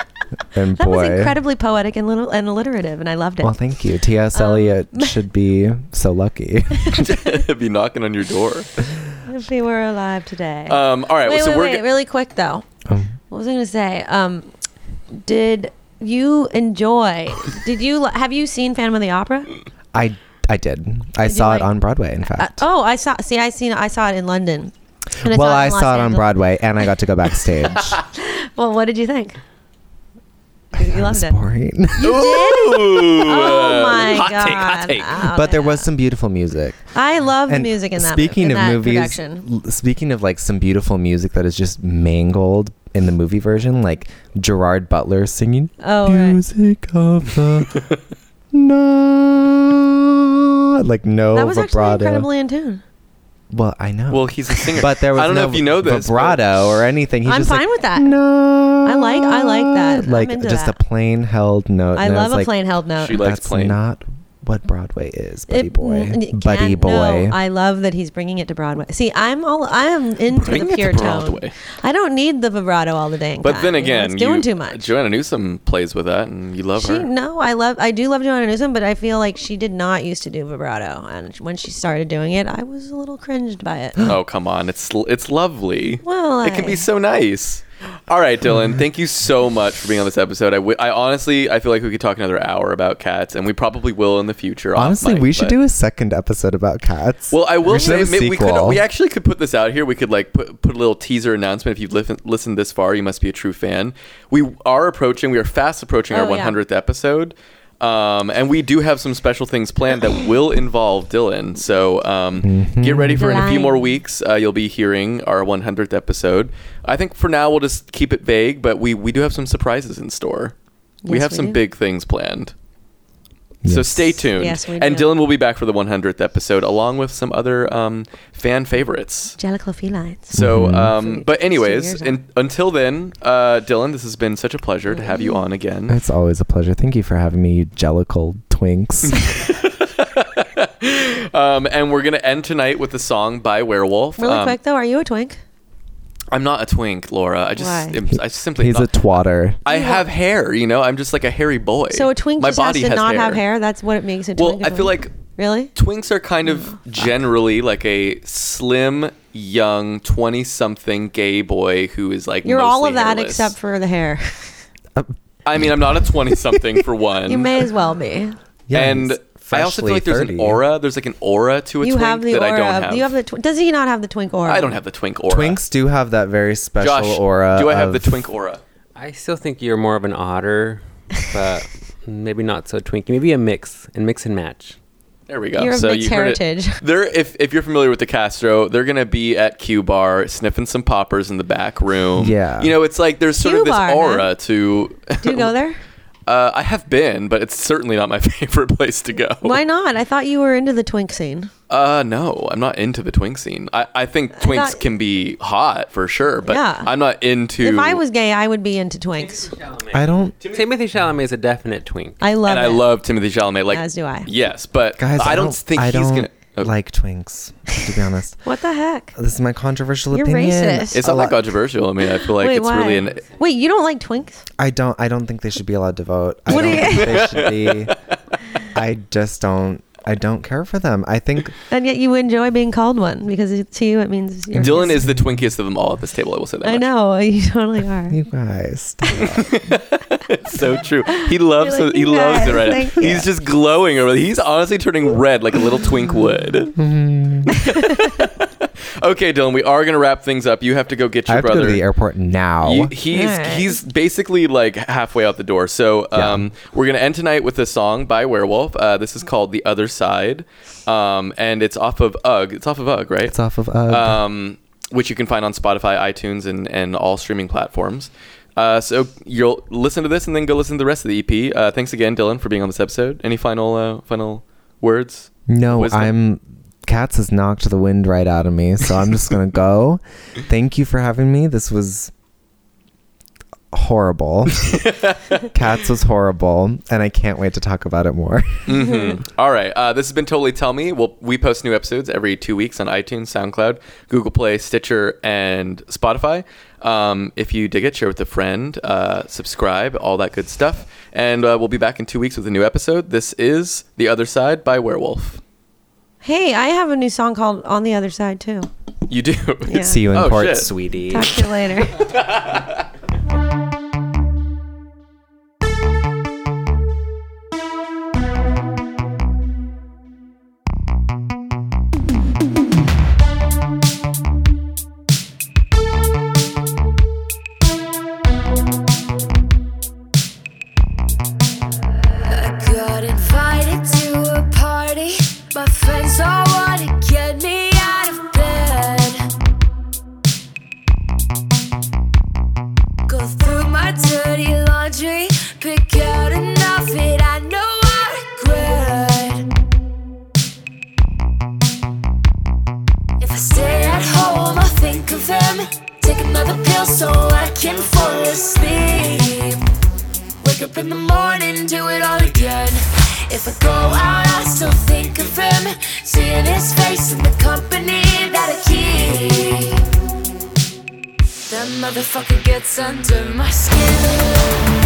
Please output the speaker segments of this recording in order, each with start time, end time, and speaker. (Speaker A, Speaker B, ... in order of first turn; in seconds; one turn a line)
Speaker A: 0.5-1.4
Speaker B: 0.8-3.6
Speaker A: 3.4-7.1
Speaker B: 4.3-5.2
Speaker B: 6.8-7.3
Speaker C: 6.9-8.7
Speaker B: 9.2-12.6
Speaker C: 10.7-11.8
Speaker A: 12.9-13.1
Speaker B: 13.3-14.5
Speaker B: 15.1-19.5
Speaker A: 19.9-22.6
Speaker B: 21.2-21.7
Speaker B: 22.3-26.3
Speaker A: 25.2-28.0
Speaker B: 28.1-29.4
Speaker B: 30.7-31.4
Speaker A: 30.8-32.2
Speaker B: 32.0-35.9
Speaker C: 32.0-35.2
Speaker A: 35.2-36.9
Speaker B: 36.9-39.4
Speaker A: 37.5-47.9
Speaker B: 45.8-46.4
Speaker A: 48.5-52.3
Speaker B: 51.3-52.8
Speaker A: 53.5-62.5
Speaker C: 54.1-56.6
Speaker B: 57.2-58.1
Speaker B: 58.8-60.8
Speaker B: 62.0-63.2
Speaker C: 63.0-63.8
Speaker A: 63.1-67.4
Speaker B: 65.5-74.9
Speaker C: 70.3-71.5
Speaker C: 73.4-77.1
Speaker B: 76.8-84.1
Speaker C: 84.0-95.6
Speaker B: 86.0-86.8
Speaker A: 94.7-98.8
Speaker C: 97.3-120.5
Speaker B: 106.1-106.5
Speaker A: 112.4-113.3
Speaker B: 113.2-114.0
Speaker B: 121.0-121.6
Speaker C: 121.1-122.5
Speaker A: 123.6-124.2
Speaker C: 123.7-129.4
Speaker B: 124.3-125.1
Speaker B: 129.4-132.1
Speaker A: 130.3-130.9
Speaker C: 130.3-136.0
Speaker B: 134.9-135.4
Speaker A: 135.9-139.4
Speaker C: 139.1-144.6
Speaker B: 144.2-145.4
Speaker C: 146.3-148.9
Speaker B: 147.6-147.9
Speaker A: 148.1-149.6
Speaker C: 149.6-153.4
Speaker B: 149.7-150.1
Speaker B: 151.9-155.7
Speaker C: 154.4-155.1
Speaker C: 155.7-163.5
Speaker B: 162.4-164.5
Speaker A: 164.9-166.8
Speaker C: 165.4-167.6
Speaker B: 167.3-168.4
Speaker A: 168.7-170.6
Speaker C: 168.7-173.1
Speaker B: 171.8-174.8
Speaker C: 174.4-175.6
Speaker A: 175.3-178.2
Speaker C: 176.8-178.6
Speaker D: 178.9-184.8
Speaker C: 185.3-195.5
Speaker B: 185.6-186.8
Speaker A: 192.1-192.7
Speaker B: 193.4-194.3
Speaker B: 195.2-195.8
Speaker C: 196.3-199.6
Speaker B: 199.4-201.5
Speaker C: 201.7-208.0
Speaker B: 204.3-204.8
Speaker B: 206.4-206.9
Speaker B: 207.6-209.5
Speaker D: 209.2-212.2
Speaker A: 209.9-210.4
Speaker B: 212.2-212.9
Speaker C: 212.4-216.7
Speaker B: 213.7-214.3
Speaker A: 215.0-218.4
Speaker B: 217.7-219.1
Speaker A: 219.2-221.5
Speaker B: 220.1-221.0
Speaker C: 220.9-223.2
Speaker B: 222.2-224.4
Speaker A: 224.6-227.9
Speaker B: 226.5-227.2
Speaker C: 226.5-228.0
Speaker A: 228.7-231.5
Speaker B: 231.7-235.0
Speaker A: 234.5-235.4
Speaker C: 234.6-236.8
Speaker B: 236.6-238.2
Speaker A: 238.1-239.6
Speaker C: 239.2-246.7
Speaker B: 241.1-243.3
Speaker A: 246.7-247.6
Speaker C: 247.5-251.8
Speaker B: 247.6-248.3
Speaker A: 251.3-252.9
Speaker C: 252.6-263.4
Speaker B: 253.1-253.8
Speaker A: 256.1-256.5
Speaker A: 263.3-264.2
Speaker C: 263.9-276.1
Speaker A: 275.5-282.1
Speaker A: 283.7-284.9
Speaker C: 284.7-285.5
Speaker A: 285.5-288.8
Speaker C: 288.7-305.4
Speaker B: 288.7-289.2
Speaker B: 306.2-308.7
Speaker C: 309.1-310.7
Speaker B: 309.7-310.0
Speaker A: 309.7-311.4
Speaker B: 311.1-312.1
Speaker C: 311.9-312.8
Speaker E: 332.1-339.3
Speaker E: 343.1-349.5
Speaker E: 353.2-359.6
Speaker E: 360.4-369.8
Speaker E: 371.5-374.3